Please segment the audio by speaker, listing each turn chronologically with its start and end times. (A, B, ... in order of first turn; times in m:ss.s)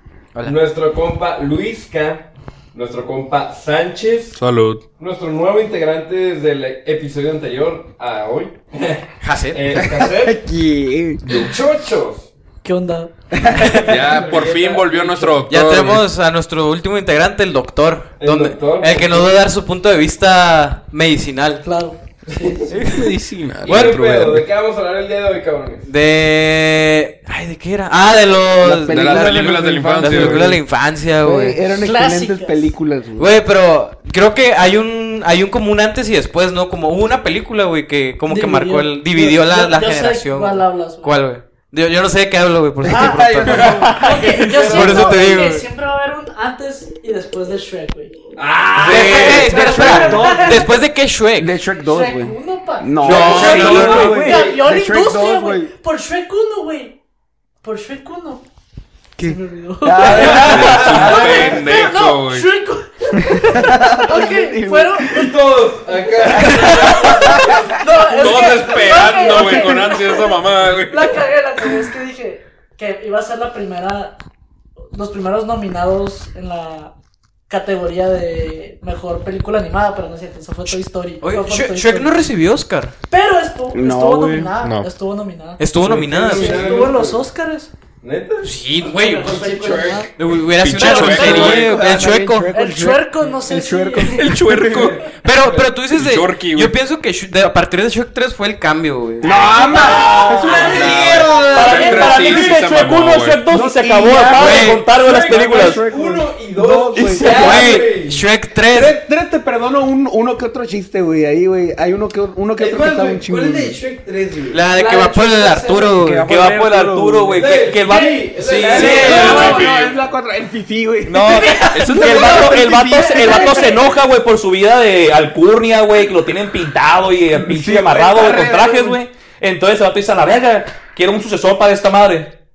0:00.4-0:04.4 A
0:04.4-0:04.8 B
0:05.0-0:10.4 A
0:09.2-0:10.1 C
0:10.2-0:11.5 D
0:11.2-0:12.3 A
0:12.6-0:13.1 E
0:13.4-0:13.9 D
0:13.6-0:15.5 A
0:13.8-0:16.1 B
0:15.5-0:21.6 C
0:18.2-0:19.5 A
0:21.6-0:22.0 E
0:22.3-0:23.1 A
0:22.7-0:24.5 B
0:23.6-0:25.9 A
0:25.8-0:31.6 C
0:28.6-0:30.6 D
0:28.9-0:30.5 B
0:30.1-0:30.4 A
0:31.2-0:33.3 D
0:31.8-0:32.7 E
0:33.2-0:45.7 C
0:38.3-0:41.2 E
0:42.8-0:45.3 D
0:42.9-0:48.2 E
0:43.9-0:44.5 F
0:48.4-0:49.5 A
0:48.6-0:49.6 F
0:48.8-0:51.5 C
0:48.9-0:50.7 D
0:49.2-0:50.7 E
0:51.4-0:55.7 D
0:51.9-0:57.0 E
0:53.0-0:54.5 F
0:53.2-0:54.5 A
0:53.3-0:53.8 C
0:57.6-0:58.4 E
0:59.2-1:01.2 D
0:59.2-1:05.3 E
1:00.0-1:01.3 F
1:00.2-1:01.8 A
1:00.2-1:02.5 B
1:03.2-1:05.1 D
1:05.0-1:09.4 A
1:05.9-1:14.2 E
1:08.1-1:11.2 B
1:14.9-1:16.9 E
1:17.5-1:22.1 E
1:21.2-1:22.9 C
1:23.1-1:25.6 E
1:23.7-1:24.5 D
1:24.6-1:24.9 B
1:25.6-1:26.8 C
1:25.8-1:26.5 D
1:25.9-1:27.2 A
1:26.3-1:27.7 E
1:28.0-1:28.5 A
1:28.4-1:32.5 C
1:28.8-1:30.1 E
1:29.6-1:30.0 A
1:30.5-1:31.8 B
1:30.8-1:31.6 E
1:30.8-1:35.0 D
1:32.5-1:34.4 E
1:34.0-1:35.1 B
1:34.6-1:35.7 A
1:35.2-1:39.4 C
1:35.9-1:36.8 B
1:39.2-1:41.0 D
1:39.5-1:42.5 E
1:39.7-1:40.8 F
1:40.7-1:43.4 B
1:40.7-1:42.2 C
1:41.4-1:45.8 F
1:43.5-1:47.7 D
1:44.3-1:44.9 C
1:45.0-1:48.2 A
1:46.9-1:47.8 F
1:47.3-1:48.9 C
1:48.7-1:53.8 D
1:52.6-1:54.7 A
1:54.5-1:56.3 C
1:54.7-1:56.0 E
1:56.0-1:57.5 D
1:56.2-1:59.5 F
1:57.3-1:59.7 A
1:57.8-1:59.6 E
1:58.4-2:00.0 B
1:58.6-2:03.8 D
2:01.0-2:12.4 F
2:01.9-2:02.5 B
2:03.0-2:03.8 E
2:07.3-2:09.0 D